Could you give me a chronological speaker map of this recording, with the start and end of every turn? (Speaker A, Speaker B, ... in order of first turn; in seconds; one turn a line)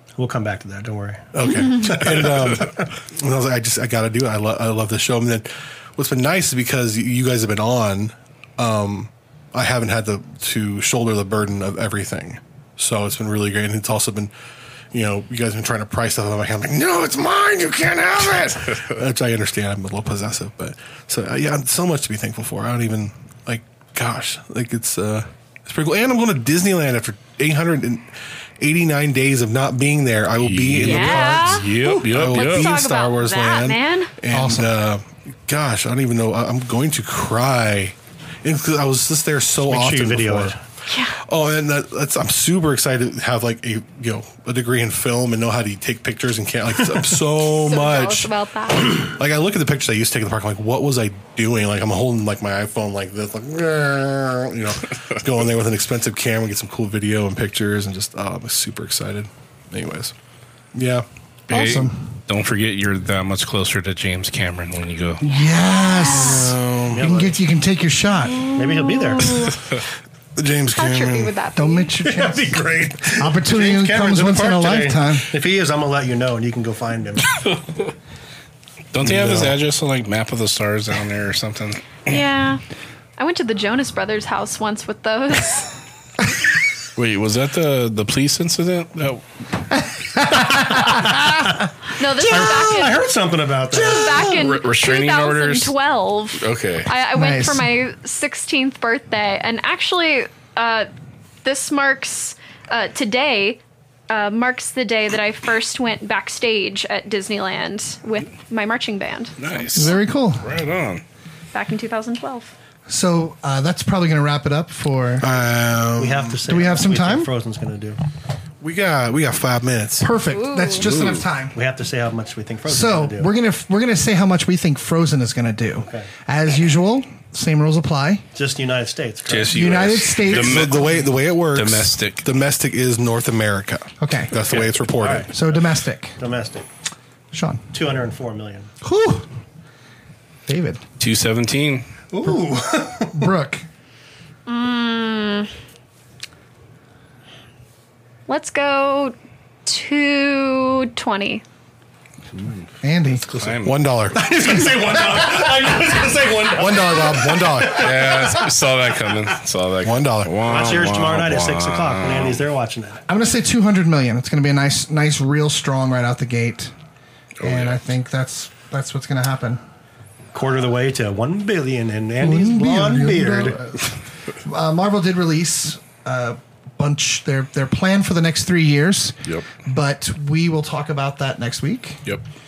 Speaker A: 0.2-2.6
Speaker B: 1.3-14.3
Speaker B: 14.9-40.5
Speaker C: 30.4-32.8
Speaker D: 30.8-31.7
Speaker D: 32.3-34.1
Speaker E: 34.3-34.7
Speaker A: 39.7-40.6
Speaker D: 40.9-41.1
Speaker B: 41.2-48.3
Speaker D: 47.5-49.0
Speaker B: 48.8-60.1
Speaker B: 60.7-61.0
Speaker E: 61.5-62.1
Speaker C: 61.5-65.2
Speaker E: 65.2-68.4
Speaker D: 65.2-66.5
Speaker B: 66.2-67.1
Speaker A: 66.9-67.3
Speaker D: 68.3-69.6
Speaker A: 68.5-69.5
Speaker B: 70.3-71.3
Speaker D: 70.7-71.9
Speaker E: 71.5-75.3
Speaker A: 72.0-77.4
Speaker C: 78.9-82.0
Speaker B: 79.0-79.5
Speaker D: 82.0-82.6
Speaker D: 83.2-85.7
Speaker C: 86.9-89.2
Speaker E: 90.0-91.3
Speaker A: 90.5-91.6
Speaker D: 91.8-93.0
Speaker A: 92.2-94.3
Speaker D: 93.7-100.9
Speaker C: 93.8-95.7
Speaker C: 96.4-96.9
Speaker E: 97.1-97.7
Speaker D: 101.4-109.9
Speaker C: 109.4-111.0
Speaker E: 109.7-110.5
Speaker D: 111.5-112.5
Speaker E: 112.9-115.2
Speaker B: 115.2-116.5
Speaker A: 116.0-118.0
Speaker E: 116.5-117.3
Speaker B: 118.6-120.1
Speaker E: 120.0-121.6
Speaker D: 120.3-120.9
Speaker B: 120.8-121.2
Speaker A: 121.5-123.3
Speaker E: 122.7-128.2
Speaker A: 125.8-126.1
Speaker A: 128.3-129.7
Speaker C: 129.3-132.2
Speaker E: 129.5-130.9
Speaker B: 130.3-135.3
Speaker E: 134.0-134.4
Speaker A: 134.5-135.3
Speaker E: 135.3-136.2
Speaker A: 136.2-136.6
Speaker E: 137.3-137.6
Speaker A: 137.7-138.7
Speaker E: 138.8-139.3
Speaker E: 140.5-140.8
Speaker C: 141.0-141.9
Speaker A: 142.1-143.3
Speaker E: 143.1-143.6
Speaker D: 144.5-145.5
Speaker D: 148.3-151.4
Speaker C: 152.3-152.6
Speaker E: 152.8-153.2
Speaker C: 153.2-154.1
Speaker B: 153.6-154.3
Speaker A: 154.1-158.4
Speaker B: 156.5-158.2
Speaker C: 157.7-162.4
Speaker B: 159.8-160.5
Speaker A: 160.4-163.0
Speaker E: 163.1-166.7
Speaker C: 167.4-167.8
Speaker E: 167.4-169.6
Speaker A: 170.3-173.7
Speaker E: 172.2-173.9
Speaker E: 174.4-182.0